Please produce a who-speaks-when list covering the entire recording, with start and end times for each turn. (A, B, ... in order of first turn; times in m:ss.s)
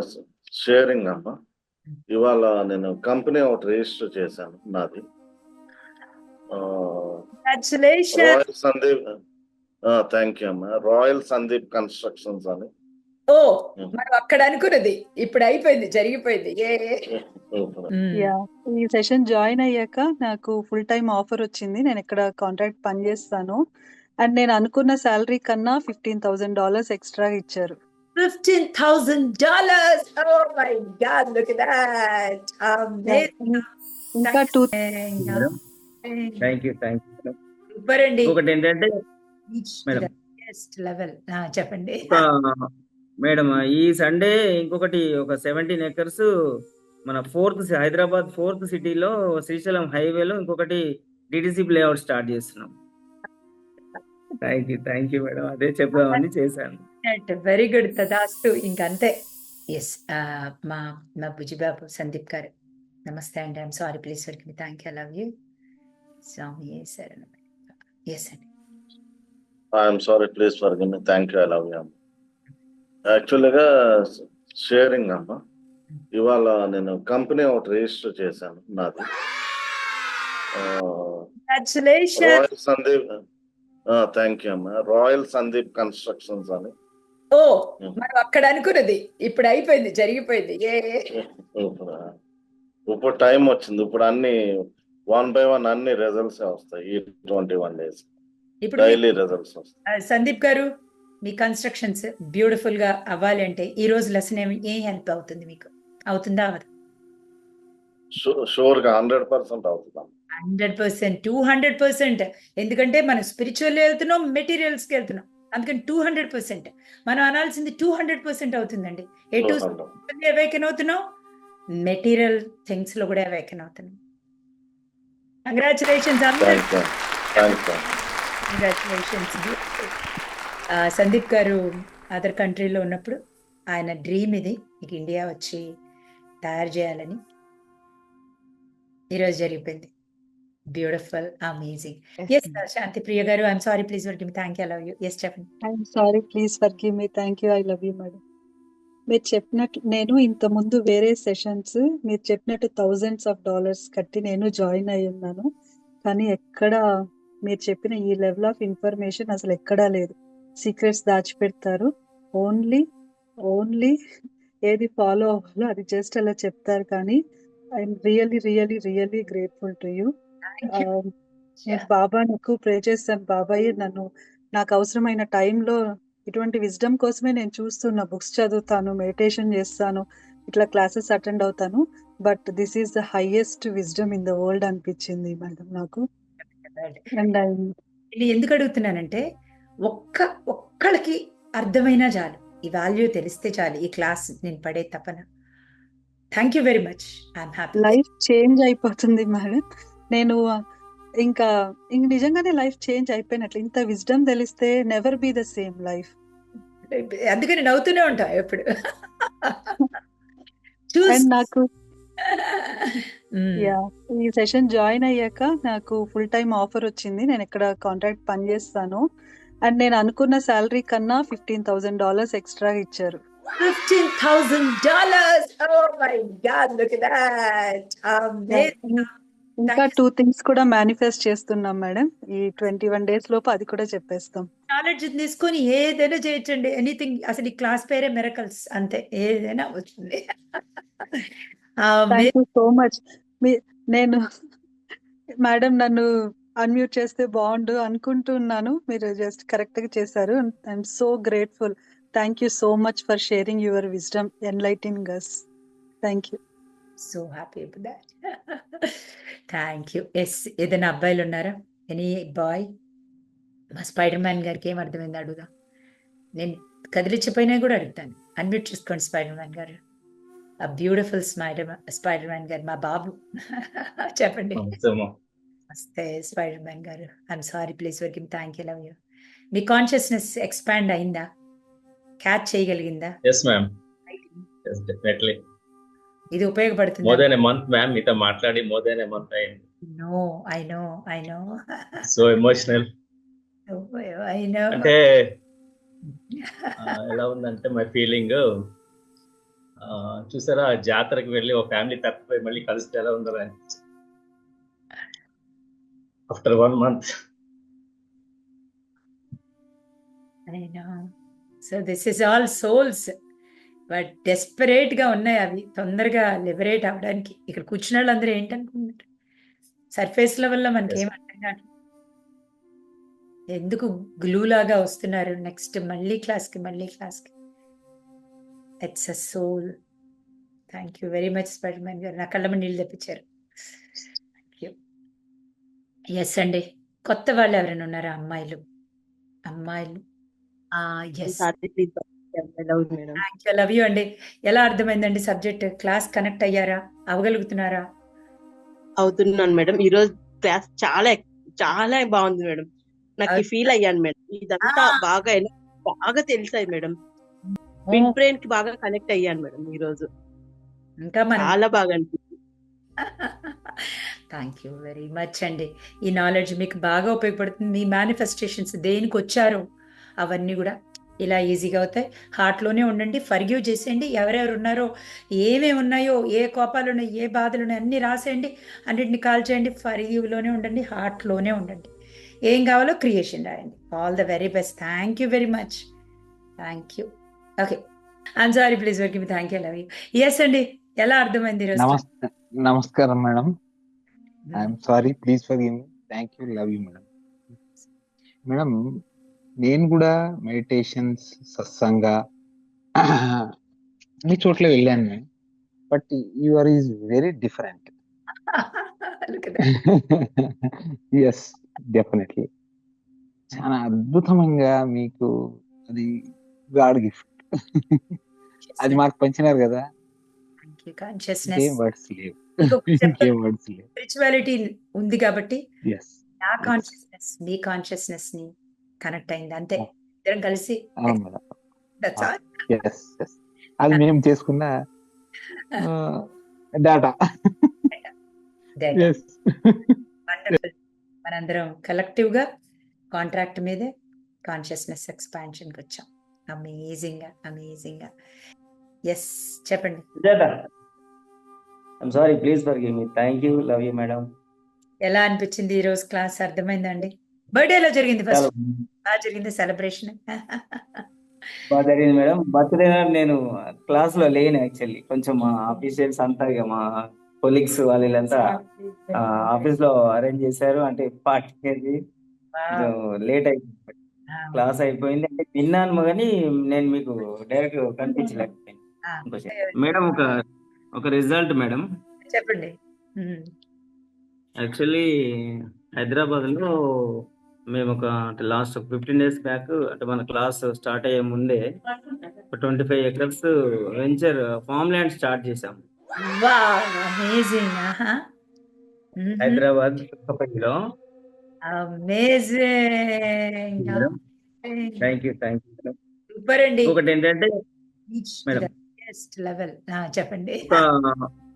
0:00.6-0:01.3 A
0:02.1-0:05.0 A
0:06.5-0:07.2 A
0:07.4-0:08.4 B
0:08.2-0:08.9 A
0:09.9-0:12.7 A
0:13.3-0:17.0 B
0:17.9-0:18.3 B
0:18.1-0:23.6 C
0:24.2-0:27.8 C
0:28.2-0:33.7 B
0:33.0-0:33.6 C
0:34.2-0:34.7 C
0:34.2-0:35.5 B
0:35.2-0:35.5 D
0:36.0-0:36.4 B
0:36.4-0:37.3 D
0:37.7-0:38.4 B
0:38.2-0:38.9 D
0:39.5-0:42.2 B
0:43.2-0:46.2 D
0:47.0-0:50.8 D
0:51.3-0:52.7 D
0:54.4-0:56.8 D
0:56.0-0:56.2 B
0:57.0-0:59.1 B
0:59.7-1:02.5 B
1:03.0-1:05.3 B
1:06.2-1:07.4 B
1:08.1-1:08.5 B
1:09.8-1:11.9 A
1:13.1-1:15.4 A
1:16.2-1:19.0 A
1:20.6-1:21.2 A
1:21.5-1:22.4 B
1:22.4-1:23.0 A
1:23.9-1:26.7 A
1:27.3-1:31.1 B
1:31.6-1:32.0 A
1:32.9-1:34.4 A
1:35.1-1:38.0 A
1:38.6-1:39.0 B
1:38.8-1:39.7 A
1:39.9-1:40.7 B
1:41.2-1:46.7 B
1:48.2-1:50.1 A
1:50.4-2:01.0 B
1:59.4-1:59.9 A
2:01.8-2:04.0 B
2:05.5-2:06.6 B
2:06.5-2:06.8 A
2:07.4-2:07.7 A
2:08.5-2:09.9 B
2:10.8-2:11.6 B
2:12.1-2:13.2 B
2:13.7-2:15.6 B
2:16.4-2:17.2 B
2:19.1-2:19.9 B
2:20.7-2:25.5 B
2:25.7-2:28.2 C
2:29.1-2:35.5 C
2:36.0-2:36.8 C
2:37.4-2:42.8 C
2:43.5-2:43.9 C
2:44.7-2:47.2 C
2:47.8-2:50.1 C
2:50.5-2:50.9 B
2:50.7-2:51.1 C
2:51.7-2:55.8 C
2:56.3-3:06.0 C
3:06.5-3:07.0 B
3:07.2-3:07.7 C
3:08.1-3:09.2 B
3:09.9-3:15.2 B
3:16.3-3:18.0 B
3:17.8-3:20.4 C
3:21.2-3:26.1 C
3:26.9-3:28.6 B
3:29.4-3:29.8 B
3:30.9-3:31.3 B
3:31.1-3:31.6 C
3:32.3-3:33.7 B
3:33.6-3:39.0 C
3:39.6-3:43.2 C
3:43.6-3:49.9 B
3:48.5-3:49.0 C
3:49.6-3:54.5 C
3:54.7-4:00.6 B
4:01.8-4:02.3 B
4:02.1-4:04.2 C
4:05.4-4:06.0 C
4:06.6-4:15.4 C
4:16.0-4:16.4 C
4:17.0-4:18.1 B
4:19.5-4:22.7 B
4:23.8-4:25.5 B
4:26.4-4:29.8 B
4:30.6-4:34.7 B
4:34.6-4:35.1 E
4:35.7-4:39.0 B
4:39.5-4:41.3 B
4:42.2-4:43.1 B
4:43.2-4:43.7 E
4:44.1-4:44.4 B
4:44.6-4:45.4 E
4:46.3-4:47.2 B
4:47.0-4:49.6 E
4:49.9-4:52.0 B
4:52.0-4:52.9 E
4:53.7-4:54.9 B
4:54.7-4:55.0 E
4:56.4-4:56.7 B
4:56.8-4:58.4 E
4:59.8-5:03.8 E
5:06.3-5:07.0 E
5:10.5-5:11.1 B
5:11.6-5:13.1 B
5:13.9-5:19.0 B
5:19.9-5:21.6 B
5:23.5-5:27.3 B
5:28.8-5:29.7 B
5:30.7-5:33.2 B
5:34.5-5:34.7 B
5:36.2-5:38.6 B
5:39.5-5:40.0 B
5:40.8-5:41.4 B
5:41.2-5:43.2 F
5:43.2-5:47.8 B
5:49.0-5:57.0 F
5:54.6-5:54.9 B
5:57.5-5:58.1 B
5:57.9-6:00.1 F
6:01.0-6:01.6 B
6:01.4-6:02.2 F
6:03.2-6:09.6 B
6:10.2-6:14.9 B
6:15.4-6:21.9 B
6:22.5-6:25.9 B
6:26.6-6:27.1 B
6:28.4-6:32.0 B
6:31.7-6:33.5 G
6:34.4-6:34.7 B
6:34.5-6:37.1 G
6:38.4-6:38.7 G
6:39.6-6:42.2 G
6:43.0-6:43.4 G
6:44.2-6:45.2 G
6:45.9-6:47.9 G
6:48.5-6:49.7 B
6:49.9-6:50.3 G
6:51.2-6:52.5 G
6:53.5-6:58.0 G
6:58.6-6:59.0 B
6:58.8-6:59.8 G
7:00.6-7:01.8 B
7:01.5-7:03.9 G
7:02.6-7:03.3 B
7:04.0-7:05.6 B
7:05.8-7:06.9 G
7:06.4-7:08.5 B
7:09.0-7:11.2 B
7:11.0-7:11.4 G
7:12.0-7:12.5 B
7:12.2-7:14.7 G
7:15.8-7:16.3 G
7:16.8-7:17.1 G
7:18.8-7:19.1 B
7:18.9-7:19.9 G
7:20.3-7:20.7 B
7:21.2-7:22.4 B
7:23.1-7:23.9 B
7:24.4-7:28.1 B
7:29.1-7:30.0 B
7:30.2-7:30.5 D
7:32.0-7:34.2 D
7:35.0-7:38.5 B
7:38.3-7:38.6 D
7:39.0-7:41.0 B
7:41.7-7:43.4 D
7:43.9-7:46.8 D
7:47.4-7:48.4 D
7:48.5-7:49.7 B
7:49.1-7:51.9 D
7:52.5-7:52.9 B
7:52.7-7:53.9 D
7:54.3-7:54.6 B
7:54.5-8:00.2 D
7:59.1-8:00.3 B
8:00.9-8:01.8 D
8:02.3-8:03.4 B
8:04.6-8:05.1 D
8:06.0-8:06.6 D
8:07.7-8:11.6 D
8:12.5-8:13.5 D
8:14.0-8:15.8 D
8:16.2-8:18.1 B
8:19.2-8:19.6 B
8:19.4-8:20.7 D
8:21.7-8:24.1 B
8:23.8-8:24.1 D
8:24.6-8:25.0 B
8:25.0-8:25.9 D
8:26.3-8:27.0 B
8:26.8-8:27.5 D
8:28.1-8:30.8 B
8:30.7-8:31.2 D